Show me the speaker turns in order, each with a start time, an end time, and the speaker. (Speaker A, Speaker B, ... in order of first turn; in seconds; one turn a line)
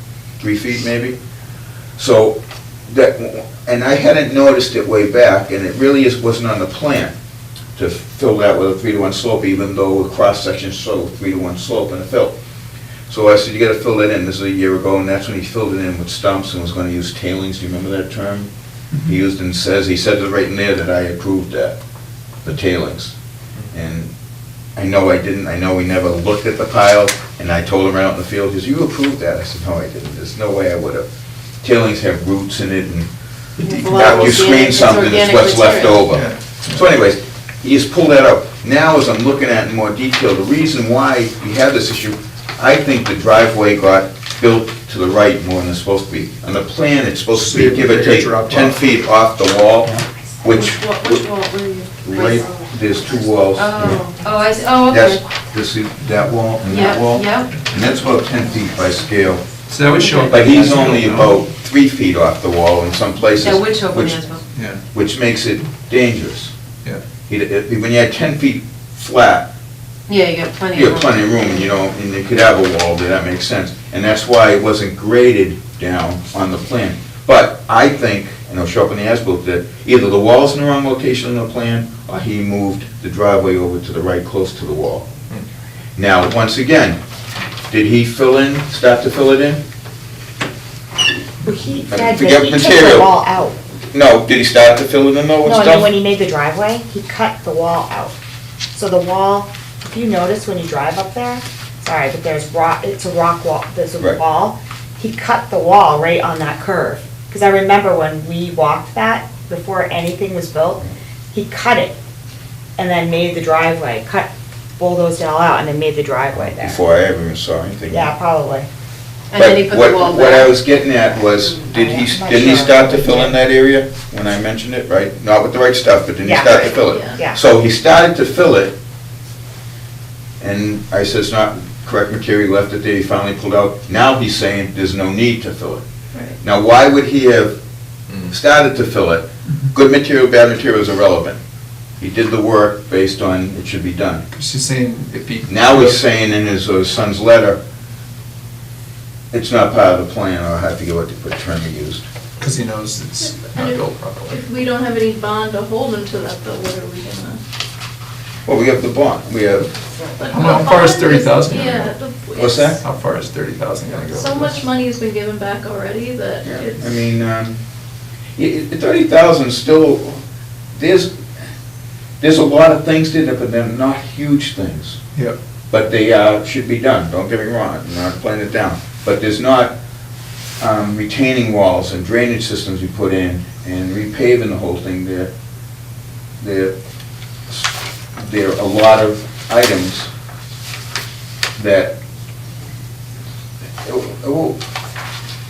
Speaker A: 0.4-1.1
Speaker A: 2.0-7.1
Speaker A: 7.8-12.3
Speaker A: 13.1-18.5
Speaker A: 19.1-21.8
Speaker A: 22.4-23.1
Speaker A: 23.7-24.1
Speaker A: 24.8-31.1
Speaker A: 31.6-33.1
Speaker B: 33.6-36.1
Speaker C: 33.6-34.4
Speaker A: 33.8-51.3
Speaker C: 36.1-36.8
Speaker C: 47.3-48.8
Speaker B: 50.5-52.4
Speaker A: 52.0-54.0
Speaker B: 53.5-55.2
Speaker A: 54.9-59.5
Speaker B: 56.6-57.6
Speaker C: 59.7-61.4
Speaker B: 59.9-60.5
Speaker A: 60.3-64.2
Speaker B: 63.4-64.4
Speaker C: 64.5-64.8
Speaker A: 64.9-66.5
Speaker A: 67.3-69.5
Speaker B: 70.1-71.7
Speaker A: 70.7-85.1
Speaker A: 86.0-87.0
Speaker A: 87.7-89.6
Speaker D: 91.4-93.5
Speaker A: 91.9-93.1
Speaker A: 93.9-95.9
Speaker D: 95.4-98.1
Speaker D: 98.7-112.0
Speaker D: 112.8-116.8
Speaker A: 116.6-118.1
Speaker D: 117.9-118.7
Speaker B: 119.3-120.9
Speaker A: 119.3-128.7
Speaker D: 121.7-123.4
Speaker D: 126.2-127.4
Speaker E: 126.6-127.2
Speaker A: 130.4-135.8
Speaker A: 136.4-137.6
Speaker A: 138.2-141.4
Speaker A: 142.0-144.2
Speaker C: 144.3-146.0
Speaker A: 145.5-147.6
Speaker A: 149.3-152.1
Speaker C: 152.4-154.4
Speaker E: 153.2-157.4
Speaker A: 158.4-159.7
Speaker E: 160.2-162.8
Speaker C: 160.3-162.0
Speaker A: 162.3-162.8
Speaker C: 162.8-164.6
Speaker E: 164.1-167.0
Speaker A: 166.4-167.6
Speaker A: 168.4-170.2
Speaker A: 170.7-171.2
Speaker A: 172.2-175.0
Speaker A: 175.7-179.8
Speaker A: 180.6-185.3
Speaker A: 186.4-186.7
Speaker A: 187.5-190.1
Speaker A: 191.6-191.9
Speaker A: 193.8-194.6